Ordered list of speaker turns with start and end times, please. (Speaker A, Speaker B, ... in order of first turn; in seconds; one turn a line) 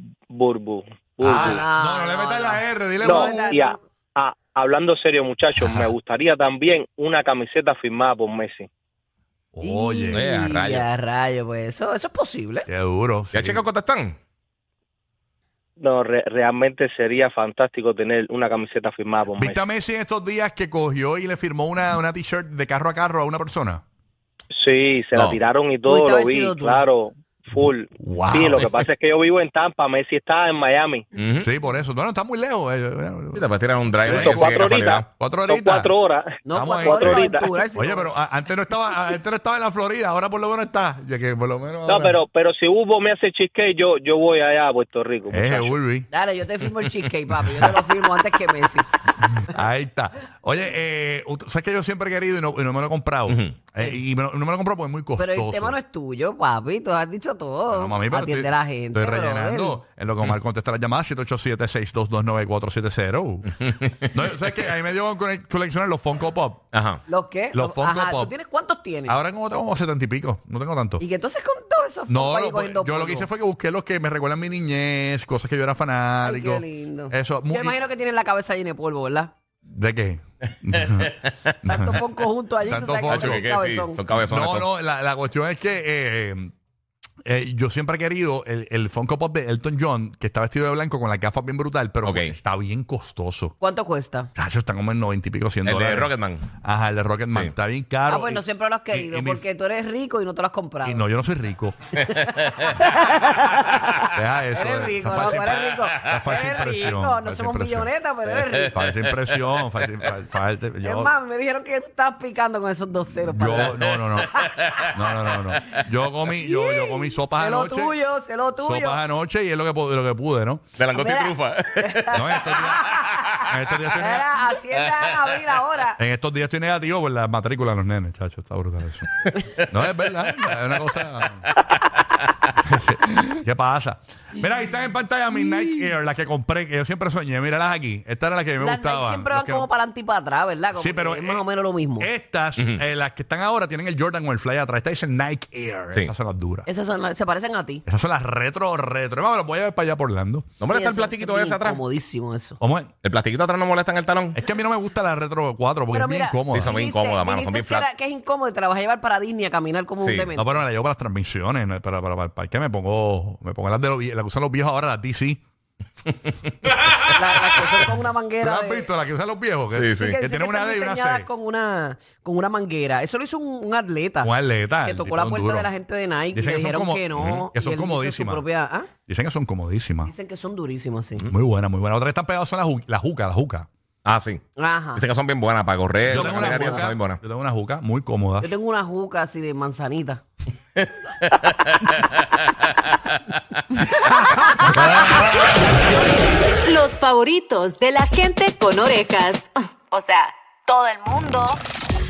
Speaker A: 0.3-1.6
Speaker B: 1.2-3.6
Speaker C: 1.3-3.8
Speaker A: 3.0-8.7
Speaker B: 9.5-10.4
Speaker C: 9.6-12.7
Speaker D: 10.1-10.9
Speaker B: 12.7-13.6
Speaker D: 13.3-14.2
Speaker A: 15.8-19.6
Speaker B: 19.4-23.8
Speaker A: 24.6-31.0
Speaker D: 25.1-25.4
Speaker C: 25.8-26.9
Speaker B: 28.0-28.8
Speaker D: 31.1-31.5
Speaker B: 31.4-33.5
Speaker D: 33.3-35.1
Speaker B: 34.0-35.9
Speaker A: 34.0-37.6
Speaker C: 36.4-38.1
Speaker B: 36.5-42.2
Speaker A: 41.9-45.8
Speaker B: 45.3-46.1
Speaker C: 46.1-48.9
Speaker B: 49.3-55.8
Speaker D: 53.3-53.5
Speaker C: 55.2-59.8
Speaker B: 57.7-66.7
Speaker D: 66.7-67.0
Speaker C: 67.1-69.2
Speaker B: 67.5-68.3
Speaker B: 69.1-71.0
Speaker C: 71.0-73.3
Speaker B: 72.1-77.8
Speaker C: 76.2-79.3
Speaker B: 79.7-82.0
Speaker D: 80.8-81.3
Speaker C: 81.6-84.0
Speaker B: 82.6-83.4
Speaker D: 83.0-84.7
Speaker B: 84.2-86.5
Speaker B: 87.2-93.5
Speaker D: 92.0-92.3
Speaker C: 93.6-94.3
Speaker B: 94.3-99.4
Speaker D: 95.6-96.4
Speaker C: 98.0-101.0
Speaker B: 100.8-101.8
Speaker D: 102.1-102.9
Speaker C: 102.1-103.8
Speaker D: 103.7-104.0
Speaker B: 104.0-107.9
Speaker C: 104.5-108.8
Speaker D: 108.4-109.4
Speaker B: 108.7-111.1
Speaker C: 110.8-115.4
Speaker B: 113.2-118.0
Speaker C: 116.3-119.0
Speaker B: 118.6-120.6
Speaker D: 120.8-123.6
Speaker C: 120.9-123.2
Speaker B: 122.1-124.3
Speaker C: 123.9-126.0
Speaker D: 124.9-125.3
Speaker B: 126.0-131.4
Speaker D: 129.2-129.6
Speaker D: 130.3-131.6
Speaker B: 132.6-139.7
Speaker C: 138.6-142.1
Speaker B: 140.7-141.4
Speaker B: 142.0-146.7
Speaker D: 142.6-142.8
Speaker C: 146.7-147.8
Speaker B: 147.8-150.5
Speaker D: 150.6-151.8
Speaker C: 150.6-152.6
Speaker B: 152.6-152.9
Speaker D: 153.0-154.4
Speaker B: 154.3-156.8
Speaker C: 155.9-160.6
Speaker D: 156.5-157.9
Speaker D: 160.0-160.3
Speaker B: 160.3-165.4
Speaker C: 167.0-168.9
Speaker B: 167.6-171.3
Speaker D: 169.7-170.2
Speaker C: 170.0-178.9
Speaker B: 174.2-175.7
Speaker B: 176.3-178.4
Speaker D: 177.1-177.4
Speaker B: 179.1-180.1
Speaker C: 180.1-181.2
Speaker B: 181.2-183.7
Speaker D: 184.0-184.4
Speaker C: 184.6-185.0
Speaker D: 184.9-187.2
Speaker B: 186.0-188.5
Speaker C: 186.1-186.8
Speaker C: 188.4-190.2
Speaker D: 190.8-193.9
Speaker B: 194.9-195.2
Speaker E: 196.6-201.6